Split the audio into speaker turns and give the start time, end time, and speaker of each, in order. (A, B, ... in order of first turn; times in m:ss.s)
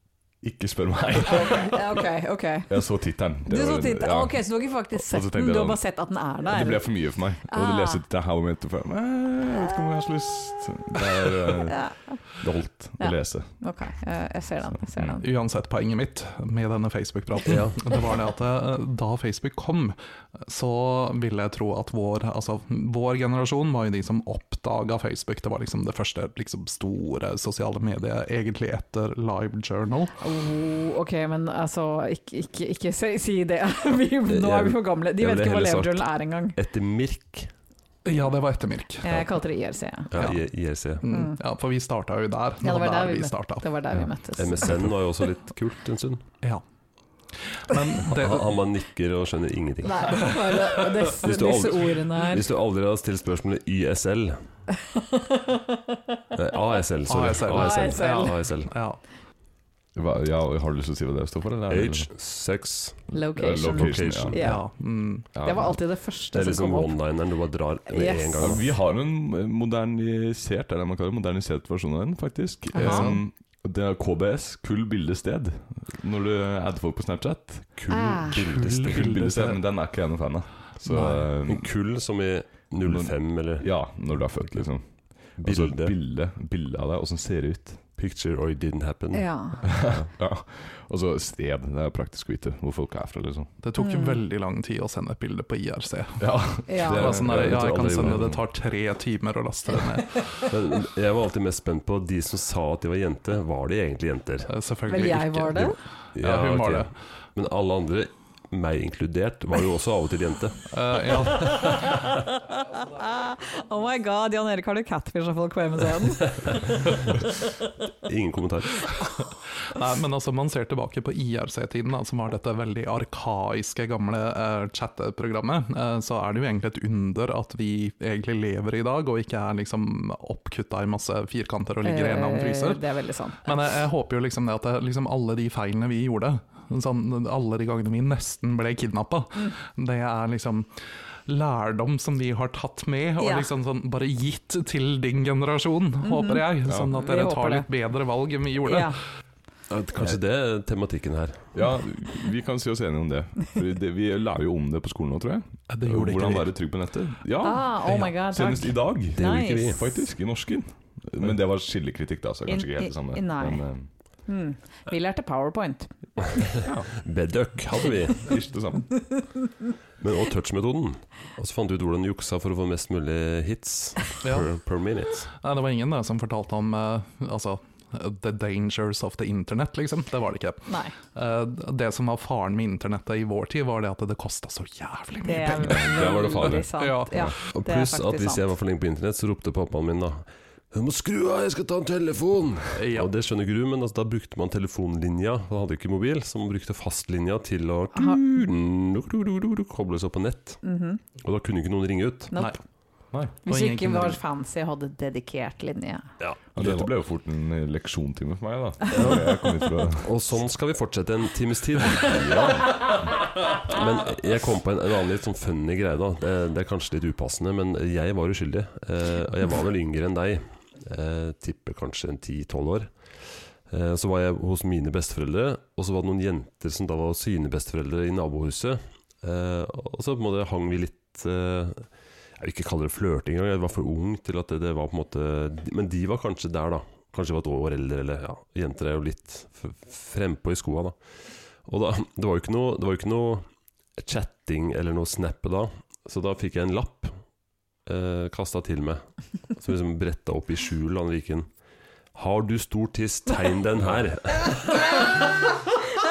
0:00.4-0:02.0 A
0:01.2-0:02.8 B
0:02.7-0:05.8 A
0:03.4-0:08.0 B
0:06.4-0:13.5 A
0:11.7-0:12.3 B
0:13.0-0:15.2 B
0:14.7-0:15.2 A
0:15.2-0:30.2 C
0:17.4-0:17.9 D
0:30.2-0:36.6 B
0:34.3-0:37.5 D
0:38.0-0:39.3 C
0:39.0-0:40.1 B
0:40.1-0:41.0 D
0:40.1-0:40.4 C
0:41.0-0:43.7 C
0:41.0-0:41.4 B
0:42.6-0:44.7 B
0:44.4-0:46.2 D
0:47.4-0:48.5 C
0:48.0-0:54.4 D
0:49.8-0:52.4 B
0:54.9-0:55.8 B
0:56.3-0:58.7 D
0:57.0-0:59.0 C
0:57.5-0:58.3 B
0:59.9-1:02.1 A
1:01.7-1:04.5 D
1:03.1-1:07.0 B
1:03.3-1:04.4 A
1:04.4-1:05.3 C
1:05.3-1:05.8 A
1:06.3-1:08.7 D
1:07.9-1:08.6 B
1:08.4-1:17.8 A
1:12.7-1:13.1 B
1:12.8-1:13.1 C
1:17.8-1:19.2 D
1:17.9-1:18.4 B
1:18.3-1:19.6 C
1:18.8-1:21.7 A
1:20.8-1:21.3 C
1:21.4-1:23.8 D
1:22.8-1:27.8 A
1:25.4-1:25.9 D
1:28.0-1:29.3 D
1:29.1-1:29.6 B
1:29.7-1:33.5 A
1:33.6-1:40.4 C
1:33.8-1:34.2 B
1:36.2-1:38.4 A
1:36.7-1:37.2 B
1:37.0-1:38.4 D
1:40.5-1:44.5 D
1:44.5-1:46.9 C
1:44.9-1:45.8 B
1:46.1-1:50.7 D
1:50.7-1:51.9 C
1:51.6-1:56.7 B
1:58.0-1:58.9 D
1:59.7-2:12.8 C
2:11.8-2:13.7 B
2:13.4-2:29.0 C
2:23.2-2:23.5 B
2:26.0-2:27.7 B
2:26.6-2:26.9 A
2:28.6-2:29.0 B
2:29.7-2:31.4 D
2:31.5-2:43.9 A
2:35.7-2:36.5 C
2:37.4-2:40.0 B
2:39.2-2:39.8 D
2:42.5-2:43.6 B
2:44.2-2:45.9 B
2:47.0-2:48.3 D
2:48.2-2:49.0 A
2:50.0-2:55.3 D
2:54.2-2:54.6 C
2:55.3-3:07.2 C
3:00.7-3:00.9 B
3:05.2-3:08.5 B
3:05.6-3:06.6 A
3:07.5-3:20.6 D
3:12.7-3:13.1 C
3:17.9-3:18.2 B
3:20.6-3:21.0 B
3:21.2-3:22.3 D
3:22.3-3:22.6 B
3:23.4-3:26.1 B
3:23.4-3:24.2 C
3:26.2-3:26.9 D
3:26.5-3:30.1 A
3:28.9-3:29.3 D
3:30.0-3:33.0 D
3:32.2-3:32.6 A
3:33.6-4:07.3 D
4:07.8-4:11.5 D
4:12.1-4:14.8 D